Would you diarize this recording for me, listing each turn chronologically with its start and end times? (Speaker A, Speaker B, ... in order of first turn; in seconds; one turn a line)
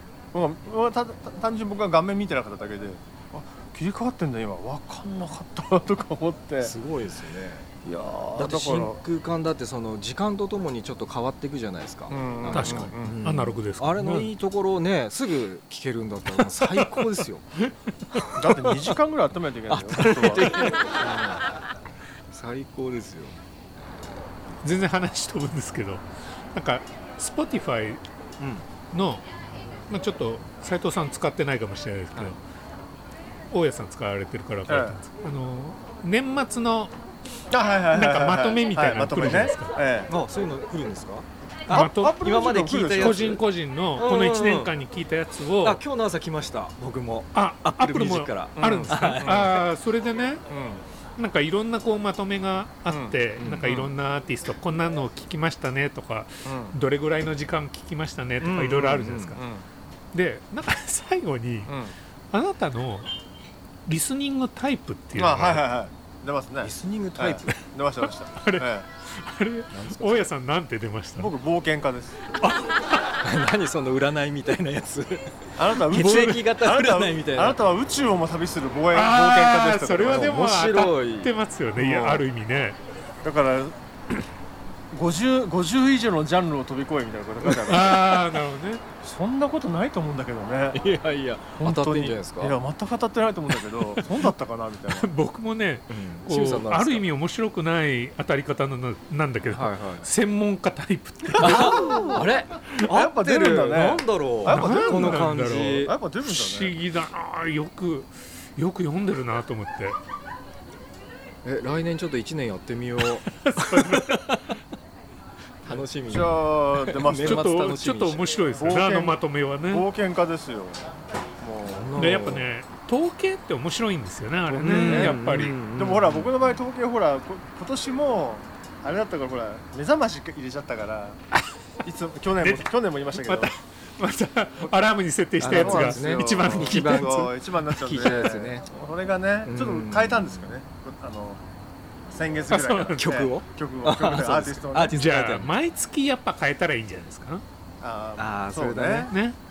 Speaker A: 0.3-6.8
Speaker B: 6.6-7.7
Speaker A: 7.8-9.0
Speaker B: 8.4-17.4
Speaker A: 12.1-13.2
Speaker C: 12.5-14.3
Speaker C: 16.4-17.7
Speaker B: 18.1-18.7
Speaker A: 18.4-20.8
Speaker B: 19.7-21.4
Speaker B: 22.3-24.3
Speaker C: 24.6-28.0
Speaker B: 28.4-28.6
Speaker C: 28.9-29.2
Speaker C: 29.9-32.4
Speaker C: 33.5-36.9
Speaker A: 34.7-35.0
Speaker A: 37.5-40.1
Speaker C: 37.9-39.7
Speaker B: 40.1-43.4
Speaker C: 41.7-45.8
Speaker A: 41.7-43.4
Speaker B: 44.0-44.7
Speaker B: 45.6-49.6
Speaker C: 47.3-50.4
Speaker A: 48.6-49.6
Speaker B: 50.5-50.8
Speaker C: 51.2-59.4
Speaker A: 52.9-53.2
Speaker B: 53.4-53.9
Speaker B: 58.4-59.4
Speaker A: 59.4-59.6
Speaker C: 60.1-61.8
Speaker A: 61.7-62.0
Speaker C: 62.3-63.1
Speaker C: 63.9-65.7
Speaker A: 65.2-68.9
Speaker B: 66.6-67.6
Speaker C: 68.3-71.3
Speaker B: 69.7-70.3
Speaker A: 71.2-72.2
Speaker C: 72.4-73.0
Speaker B: 73.2-77.6
Speaker A: 75.6-80.4
Speaker C: 78.9-82.8
Speaker B: 80.1-81.3
Speaker A: 81.8-82.3
Speaker A: 83.2-83.8
Speaker A: 84.9-88.2
Speaker C: 87.6-88.8
Speaker A: 89.0-90.8
Speaker B: 90.7-92.6
Speaker A: 91.6-95.1
Speaker C: 94.9-102.9
Speaker B: 95.9-97.1
Speaker B: 99.4-100.1
Speaker B: 101.4-106.0
Speaker A: 101.6-102.0
Speaker A: 102.8-106.8
Speaker C: 104.5-110.0
Speaker B: 111.5-114.5
Speaker C: 113.0-114.5
Speaker B: 115.7-118.3
Speaker A: 116.1-117.5
Speaker C: 117.1-119.9
Speaker A: 118.6-120.9
Speaker A: 121.4-122.0
Speaker B: 121.7-122.5
Speaker C: 122.0-125.6
Speaker A: 124.5-131.2
Speaker B: 124.5-126.5
Speaker A: 131.8-133.5
Speaker C: 132.4-137.4
Speaker B: 135.4-138.7
Speaker A: 135.4-141.4
Speaker B: 139.4-140.6
Speaker A: 142.1-145.0
Speaker C: 142.5-143.2
Speaker B: 143.0-145.5
Speaker C: 144.9-147.4
Speaker A: 147.8-149.1
Speaker B: 148.2-149.1
Speaker C: 149.1-149.4